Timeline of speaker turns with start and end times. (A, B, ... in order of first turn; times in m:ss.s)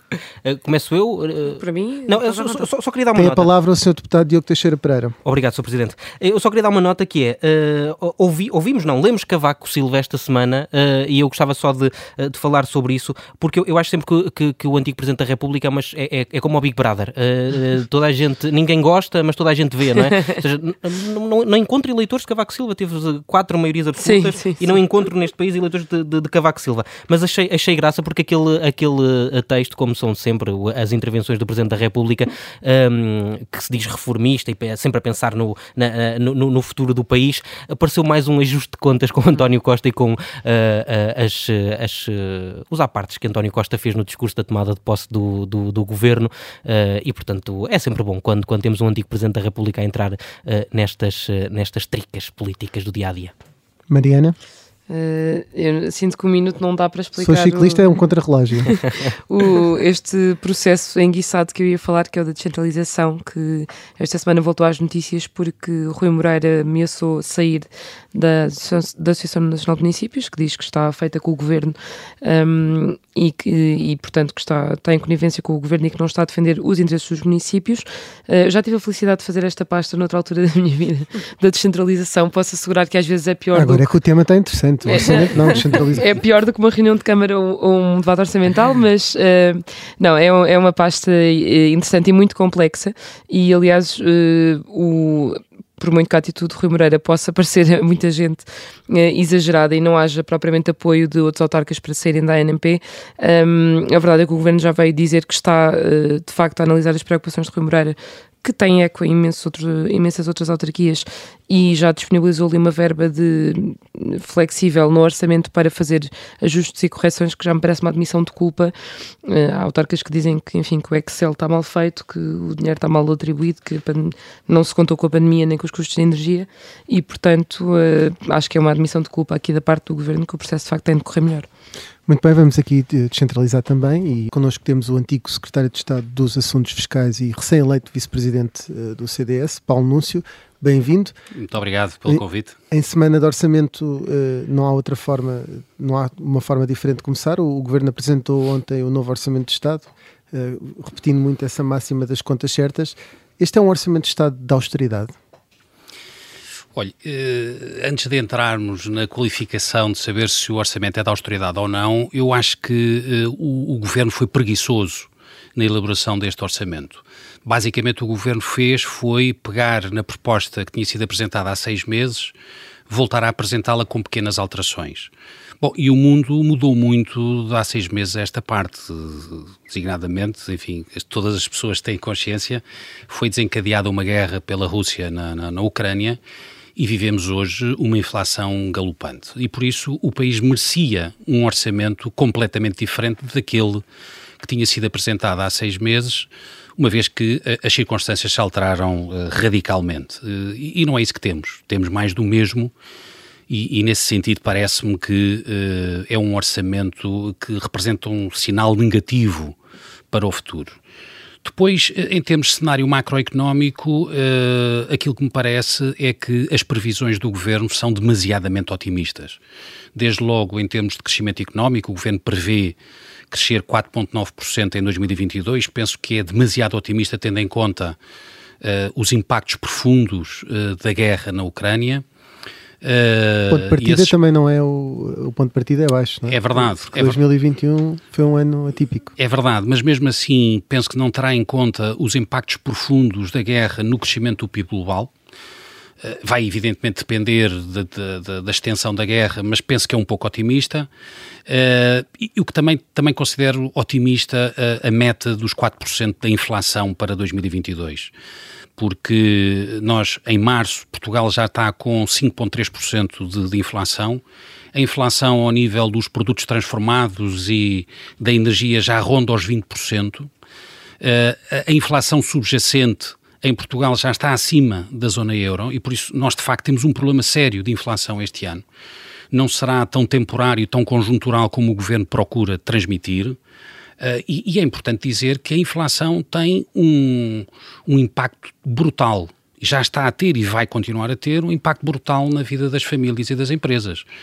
0:00.4-0:03.5 A
0:01.6-0:02.7 B
0:03.2-0:05.2 C
0:05.2-0:53.3 A
0:24.0-0:24.7 B
0:53.9-0:54.4 C
0:54.9-0:58.0 B
0:57.2-0:58.7 C
0:58.7-1:23.9 B
1:23.5-1:26.1 C
1:24.9-1:58.7 B
1:59.2-2:11.5 B
2:12.1-2:21.2 C
2:21.4-2:22.6 D
2:22.1-2:35.1 C
2:36.8-2:52.3 D
2:52.9-3:06.2 D
3:06.8-3:13.8 D
3:14.4-3:22.7 D
3:23.5-3:29.6 D
3:30.1-3:30.8 D
3:31.4-3:39.4 D
3:40.0-3:42.8 D
3:43.3-3:48.0 D
3:48.6-3:52.0 D
3:52.8-3:54.1 D
3:53.5-3:59.1 C
3:56.3-3:57.2 D
3:59.2-4:05.1 D
4:06.0-4:10.9 D
4:11.5-4:18.1 D
4:18.8-4:24.2 D
4:24.7-4:30.3 D
4:31.0-4:38.6 D
4:39.3-4:43.4 D
4:44.0-4:54.1 D